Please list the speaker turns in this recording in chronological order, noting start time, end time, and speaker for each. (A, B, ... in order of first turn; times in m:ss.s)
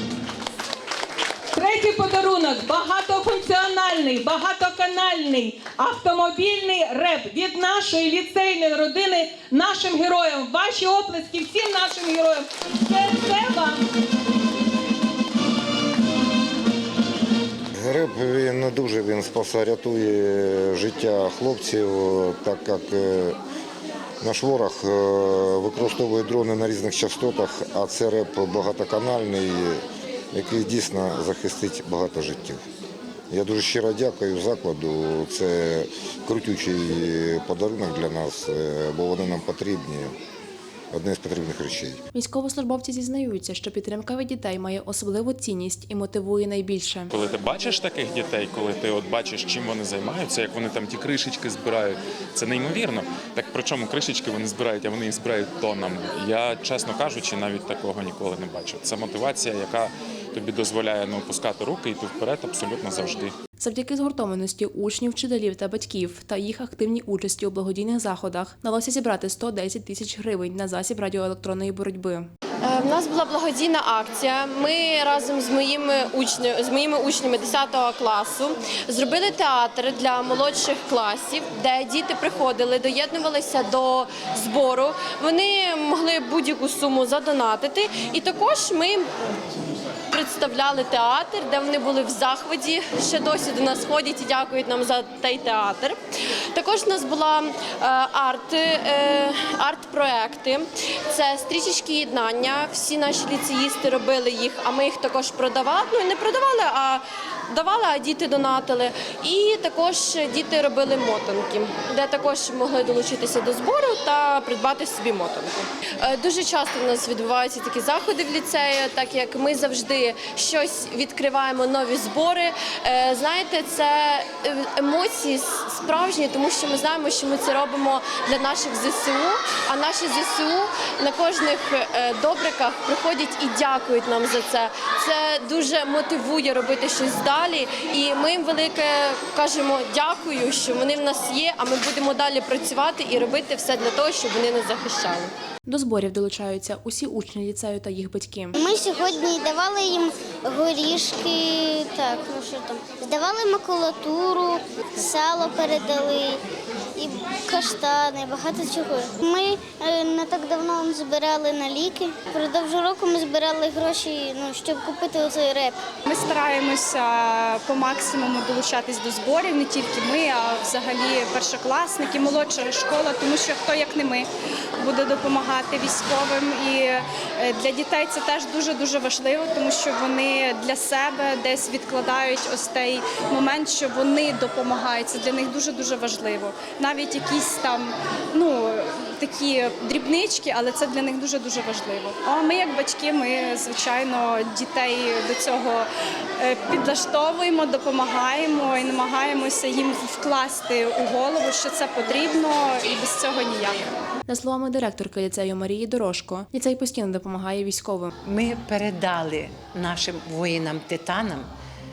0:01.5-0:13.8 A
0:17.8-0:23.4 B
0:24.2-0:32.6 B
0:33.3-0:40.1 B
0:40.9-0:42.0 B
0:42.1-0:47.1 C
0:47.1-1:03.3 D
1:03.6-1:12.3 C
1:12.6-1:29.1 E
1:30.1-1:36.0 E
1:36.5-2:25.3 E
2:25.6-2:28.6 C
2:28.6-2:36.4 F
2:37.0-2:45.8 F
2:46.0-3:23.9 G
3:24.3-3:28.1 C
3:28.2-3:31.5 H